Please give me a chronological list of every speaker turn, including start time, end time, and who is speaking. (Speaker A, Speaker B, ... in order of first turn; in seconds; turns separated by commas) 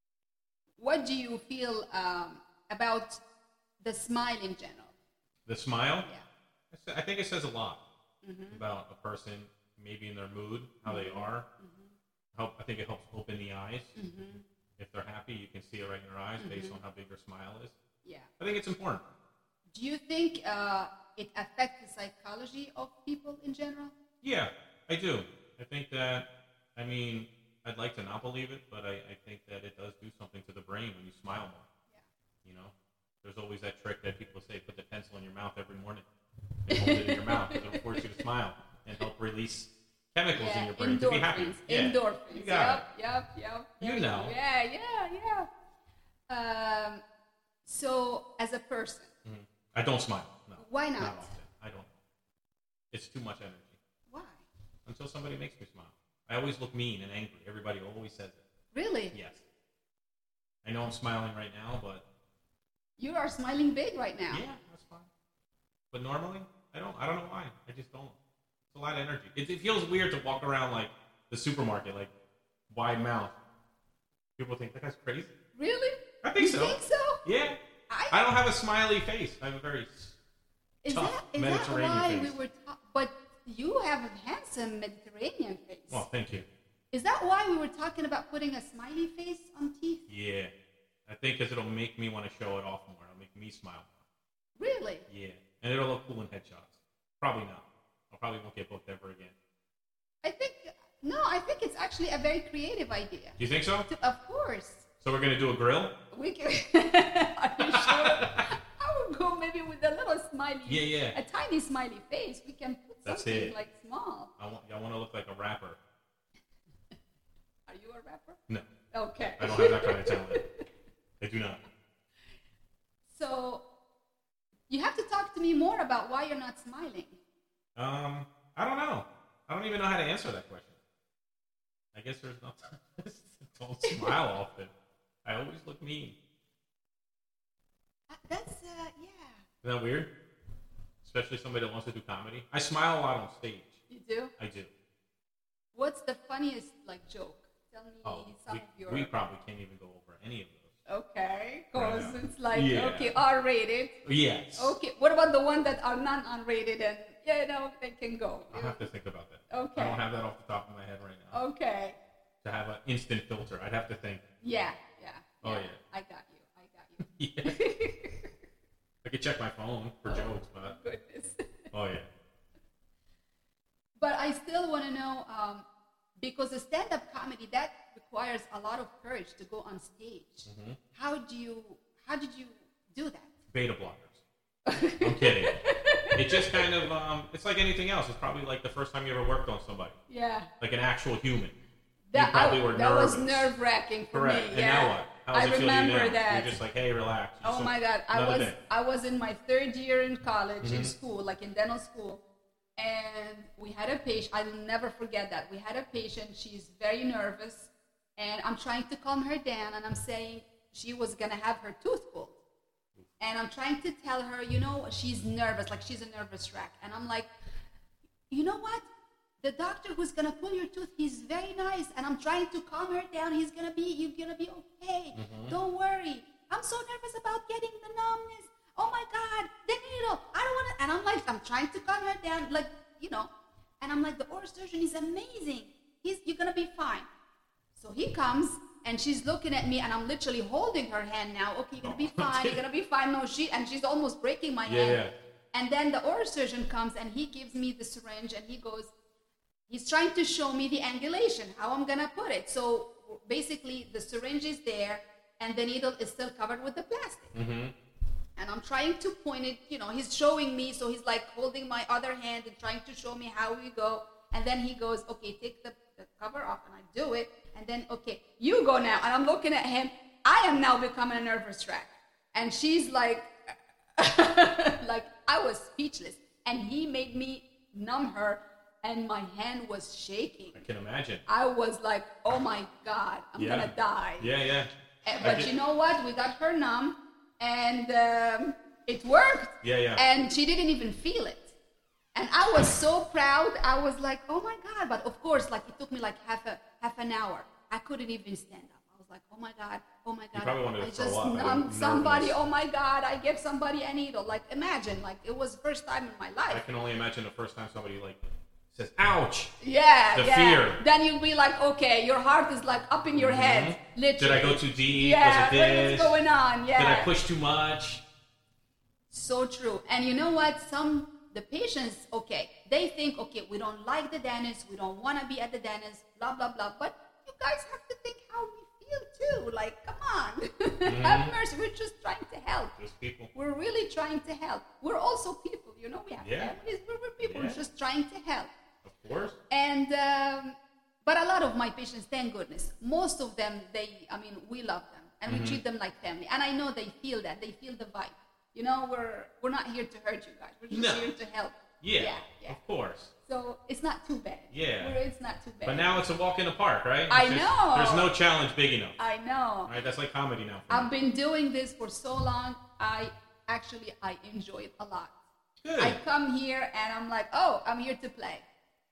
Speaker A: 0.8-3.2, Speaker A: 3.8-4.9, Speaker B: 5.5-6.1, Speaker B: 6.7-7.8, Speaker A: 8.2-8.6, Speaker B: 8.5-11.5, Speaker A: 10.9-11.9, Speaker B: 12.3-13.9, Speaker A: 13.9-14.4, Speaker B: 14.8-17.8, Speaker A: 16.4-16.8, Speaker A: 18.0-18.3, Speaker B: 18.4-19.1, Speaker A: 19.7-23.9, Speaker B: 24.2-31.7, Speaker B: 32.4-36.1, Speaker B: 36.7-42.9, Speaker A: 36.7-38.2, Speaker A: 40.3-45.5, Speaker B: 43.8-44.4, Speaker A: 46.3-47.0, Speaker A: 47.6-49.1, Speaker B: 49.2-51.9, Speaker A: 50.6-51.3, Speaker B: 52.9-53.8, Speaker A: 54.1-54.5, Speaker B: 54.9-58.4, Speaker A: 58.7-59.1, Speaker B: 59.1-59.4, Speaker B: 60.6-62.0, Speaker A: 63.0-64.4, Speaker B: 64.3-65.1, Speaker B: 65.9-68.2, Speaker B: 68.7-72.1, Speaker B: 72.7-73.3, Speaker B: 74.4-75.3, Speaker A: 75.5-77.2, Speaker B: 76.2-77.6, Speaker A: 77.9-78.2, Speaker B: 78.1-80.2, Speaker A: 80.8-86.0, Speaker B: 80.9-82.4, Speaker B: 85.9-86.5, Speaker A: 86.9-90.1, Speaker B: 90.1-90.5, Speaker B: 91.1-94.0, Speaker A: 94.6-95.1, Speaker B: 95.1-99.3, Speaker A: 100.2-104.8, Speaker B: 103.4-103.9, Speaker B: 105.0-105.9, Speaker A: 106.1-114.3, Speaker B: 107.7-108.4, Speaker B: 110.7-111.2, Speaker B: 113.0-113.5, Speaker B: 114.4-115.8, Speaker A: 117.7-118.4, Speaker A: 118.9-120.6, Speaker B: 119.4-120.4, Speaker B: 121.2-121.6, Speaker A: 123.1-123.7, Speaker A: 124.7-127.2, Speaker B: 127.8-130.8, Speaker B: 131.9-134.7, Speaker A: 133.8-134.2, Speaker B: 135.2-136.2, Speaker A: 138.1-139.4, Speaker B: 139.6-140.1, Speaker B: 141.0-143.8, Speaker A: 143.9-144.3, Speaker B: 144.4-144.7, Speaker A: 145.7-149.1, Speaker B: 148.0-150.7, Speaker A: 150.9-154.0, Speaker B: 151.8-153.2, Speaker B: 154.1-154.8, Speaker A: 154.6-158.9, Speaker B: 158.5-161.4, Speaker A: 159.5-160.0, Speaker A: 161.3-162.0, Speaker B: 162.4-164.2, Speaker A: 164.4-168.3, Speaker B: 165.4-165.8, Speaker B: 167.0-167.6, Speaker B: 169.0-170.8, Speaker A: 170.6-171.5, Speaker B: 171.7-172.1, Speaker A: 174.0-175.7, Speaker A: 176.2-183.3, Speaker B: 180.5-180.8, Speaker B: 183.5-184.2, Speaker A: 184.7-186.7, Speaker B: 185.0-185.6, Speaker B: 186.1-190.0, Speaker A: 190.1-190.5, Speaker B: 190.6-191.6, Speaker A: 192.1-196.6, Speaker B: 192.1-193.5, Speaker B: 194.1-198.6, Speaker A: 197.4-202.2, Speaker B: 200.6-200.9, Speaker A: 202.8-212.4, Speaker A: 213.2-217.3, Speaker A: 218.3-218.9, Speaker A: 219.4-237.1, Speaker B: 225.2-225.6, Speaker A: 237.8-248.9, Speaker B: 241.8-242.6, Speaker B: 244.7-245.1, Speaker A: 249.7-257.3, Speaker B: 257.3-257.7, Speaker A: 258.4-280.6, Speaker B: 280.6-281.2, Speaker A: 281.3-284.3, Speaker B: 283.4-285.5, Speaker A: 285.0-291.5, Speaker B: 289.6-290.0, Speaker A: 292.1-306.6, Speaker B: 300.3-302.4, Speaker B: 306.5-308.2, Speaker B: 308.7-309.5, Speaker A: 309.6-317.1, Speaker B: 310.1-310.8, Speaker B: 313.1-316.2, Speaker B: 316.8-318.0, Speaker A: 319.1-332.8, Speaker B: 330.9-331.4, Speaker B: 332.8-333.3, Speaker A: 333.3-338.5, Speaker B: 336.2-336.5, Speaker B: 337.2-337.6, Speaker B: 338.8-339.4, Speaker A: 339.5-352.6, Speaker B: 345.3-345.6, Speaker B: 350.7-351.1, Speaker B: 351.8-353.1, Speaker A: 353.3-356.0, Speaker B: 354.5-355.0, Speaker B: 355.6-359.0, Speaker A: 357.1-358.1, Speaker A: 359.0-359.7, Speaker B: 359.7-360.9, Speaker A: 360.7-365.1, Speaker B: 365.6-366.0, Speaker A: 365.8-368.5